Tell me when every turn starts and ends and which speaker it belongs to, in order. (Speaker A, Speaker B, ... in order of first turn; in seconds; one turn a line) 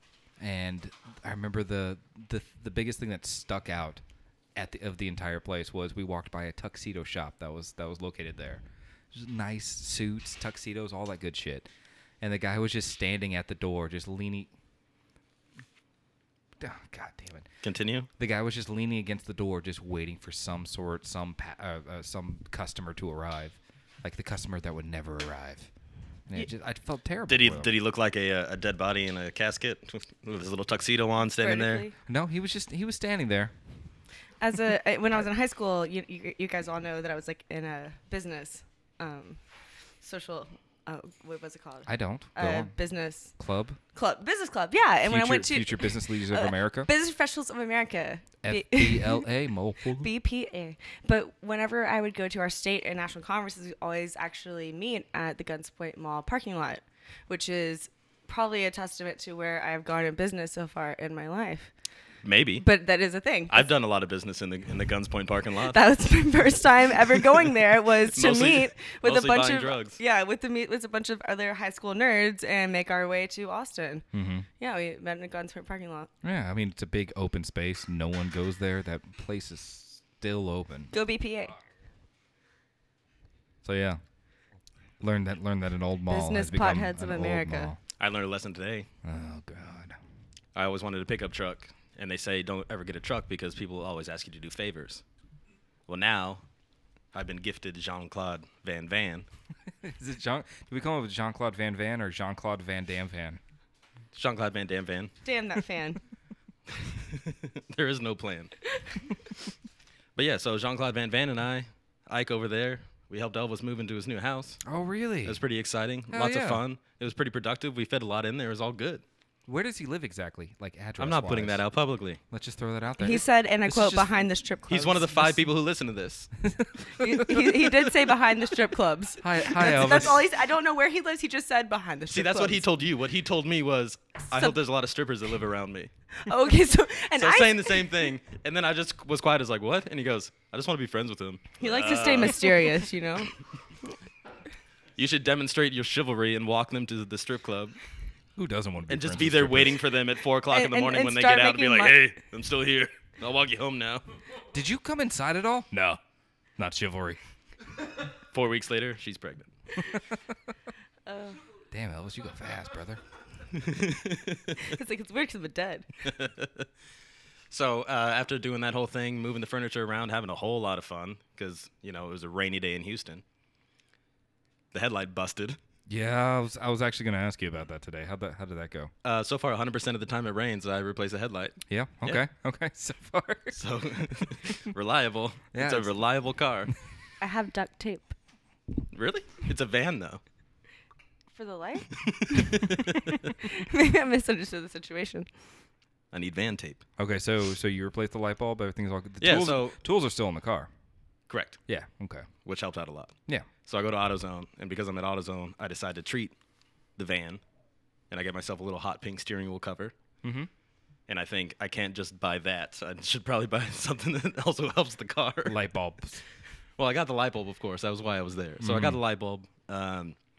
Speaker A: 0.4-4.0
Speaker A: 4.5-11.7
Speaker A: 12.2-14.5
Speaker A: 16.6-17.5
Speaker B: 17.6-18.1
Speaker A: 18.2-25.7
Speaker A: 26.3-27.7
Speaker B: 27.3-31.9
Speaker C: 31.4-32.0
Speaker A: 32.1-33.5
Speaker C: 34.4-39.4
Speaker C: 40.0-43.3
Speaker A: 41.9-42.7
Speaker A: 43.4-43.8
Speaker C: 43.9-49.3
Speaker A: 45.0-46.9
Speaker A: 48.4-50.1
Speaker C: 50.0-61.7
Speaker B: 62.2-62.7
Speaker C: 62.6-63.7
Speaker B: 63.5-65.8
Speaker C: 65.7-74.0
Speaker B: 68.1-70.0
Speaker A: 74.1-74.5
Speaker C: 74.6-76.1
Speaker A: 76.2-80.9
Speaker C: 80.9-81.6
Speaker A: 83.6-84.0
Speaker A: 85.0-87.8
Speaker C: 86.1-87.7
Speaker B: 88.0-88.9
Speaker A: 89.0-90.0
Speaker B: 90.5-95.0
Speaker B: 95.9-96.4
Speaker B: 97.1-99.3
Speaker A: 99.8-103.4
Speaker B: 104.1-105.1
Speaker C: 105.2-106.0
Speaker B: 106.7-108.5
Speaker B: 110.2-114.6
Speaker A: 114.6-115.4
Speaker B: 115.2-119.0
Speaker A: 116.1-116.6
Speaker A: 119.5-121.6
Speaker B: 121.0-122.2
Speaker A: 122.3-124.3
Speaker C: 123.0-125.1
Speaker B: 124.7-126.3
Speaker A: 126.4-127.5
Speaker C: 127.0-132.7
Speaker A: 129.2-130.3
Speaker B: 132.1-135.9
Speaker C: 134.3-134.6
Speaker C: 136.1-138.1
Speaker B: 137.2-142.8
Speaker C: 141.6-143.3
Speaker B: 145.0-147.8
Speaker A: 148.4-149.8
Speaker B: 148.9-154.1
Speaker C: 150.5-152.2
Speaker A: 154.5-156.0
Speaker A: 156.6-157.2
Speaker B: 158.3-159.5
Speaker C: 161.1-161.4
Speaker A: 161.7-163.0
Speaker B: 163.5-164.6
Speaker C: 164.6-165.9
Speaker B: 166.1-166.7
Speaker B: 167.5-173.2
Speaker B: 174.7-175.6
Speaker A: 175.9-178.9
Speaker B: 179.0-182.2
Speaker A: 181.7-183.6
Speaker B: 183.5-186.7
Speaker A: 185.5-185.9
Speaker C: 187.2-188.1
Speaker B: 188.9-190.2
Speaker C: 191.3-192.8
Speaker B: 192.1-193.2
Speaker C: 193.4-195.3
Speaker B: 196.1-196.8
Speaker A: 197.0-200.7
Speaker B: 199.2-199.8
Speaker B: 201.3-201.6
Speaker A: 201.7-202.3
Speaker B: 202.4-203.1
Speaker B: 203.7-206.3
Speaker B: 207.0-207.4
Speaker B: 208.1-209.9
Speaker A: 210.2-210.5
Speaker B: 211.1-215.6
Speaker A: 215.4-216.2
Speaker B: 216.8-220.2
Speaker A: 218.6-219.0